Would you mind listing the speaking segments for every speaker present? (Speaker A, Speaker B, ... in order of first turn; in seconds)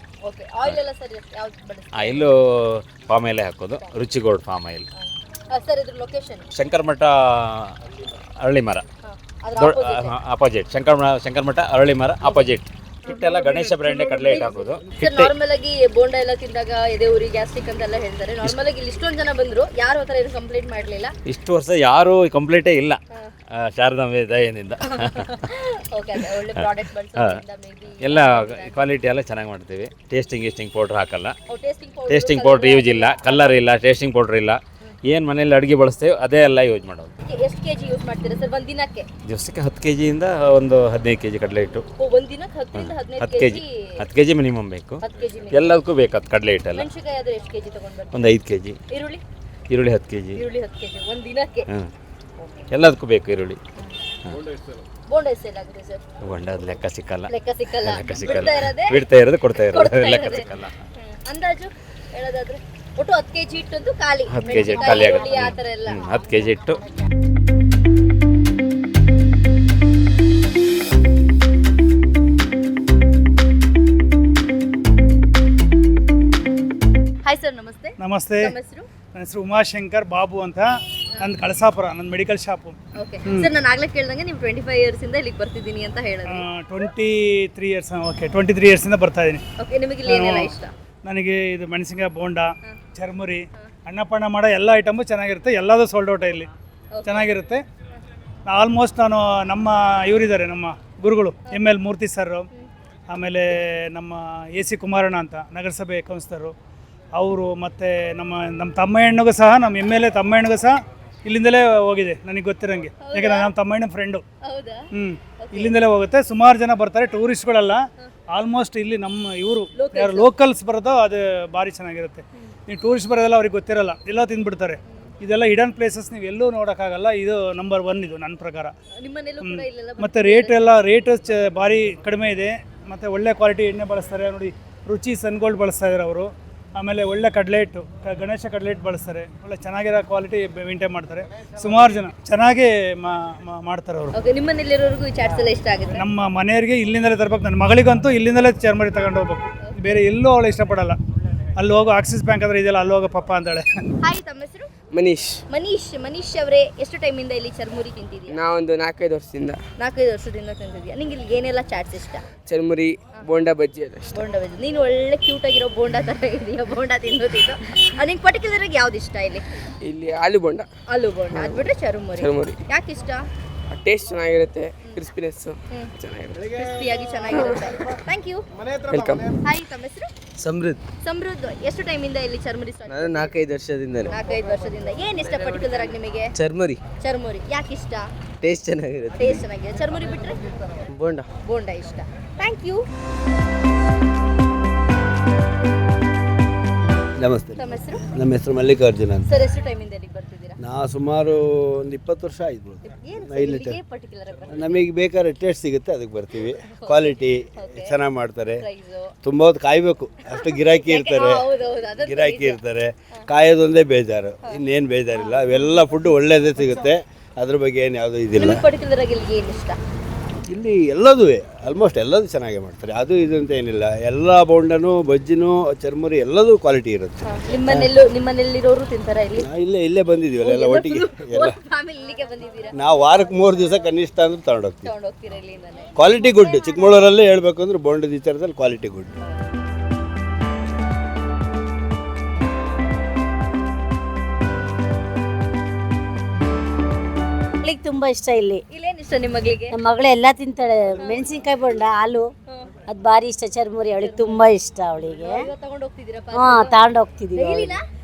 Speaker A: 0.2-2.3, 5.0-6.5, 9.0-10.1, 12.2-12.5, 14.1-21.1, 25.1-28.8, 31.5-33.6, 37.2-39.1, 42.0-44.0, 45.0-45.8, 46.7-48.3, 48.9-49.2, 50.3-51.7, 55.1-56.0, 57.3-59.0, 59.5-66.1, 77.2-78.9, 82.9-86.5, 89.6-90.7, 96.9-97.3, 113.0-113.5, 114.4-114.8, 115.4-115.8, 119.7-120.3, 129.0-130.8, 144.1-146.1, 149.7-150.1, 154.0-154.7, 155.5-158.4, 159.8-162.2, 164.1-169.4, 170.9-173.2, 176.5-178.4, 179.4-180.1, 181.0-183.4, 184.1-186.3, 187.0-188.1, 189.2-190.4, 191.4-192.8, 197.6-198.0, 199.2-200.6, 202.8-204.8, 206.7-207.9, 208.6-209.1, 210.3-212.6, 215.1-216.0, 216.6-216.9, 218.3-219.8, 227.2-229.5, 230.4-233.9, 234.8-237.1, 239.2-239.4, 248.7-249.8, 254.0-254.5, 255.2-256.8, 257.3-257.8
Speaker B: 1.9-4.8, 6.5-7.7, 8.4-8.8, 9.6-15.3, 21.2-23.0, 23.5-25.4, 26.5-27.4, 28.0-31.4, 32.1-37.1, 39.2-41.9, 42.7-46.9, 48.1-48.8, 49.7-50.4, 52.7-53.6, 56.2-60.7, 64.3-66.8
Speaker C: 64.6-65.4, 247.6-248.6, 249.7-252.3, 252.9-255.5, 256.3-257.7
Speaker D: 78.0-78.5, 79.1-83.5, 86.3-89.4, 90.0-96.5, 97.0-97.6, 98.5-102.5, 103.1-106.5, 107.1-114.2, 114.9-128.7, 129.4-144.1, 145.9-151.0, 151.6-153.8
Speaker E: 154.9-155.4, 158.3-159.6, 162.4-164.2, 169.8-170.7, 171.3-172.6, 173.7-176.5, 178.9-179.3
Speaker F: 180.4-180.8, 182.9-184.1, 186.3-186.8, 188.4-189.4, 190.9-191.3
Speaker G: 197.2-199.4, 200.6-203.8, 204.5-208.6, 209.2-211.5, 212.0-218.6, 220.5-227.9, 229.4-231.5, 232.7-234.9, 235.9-239.1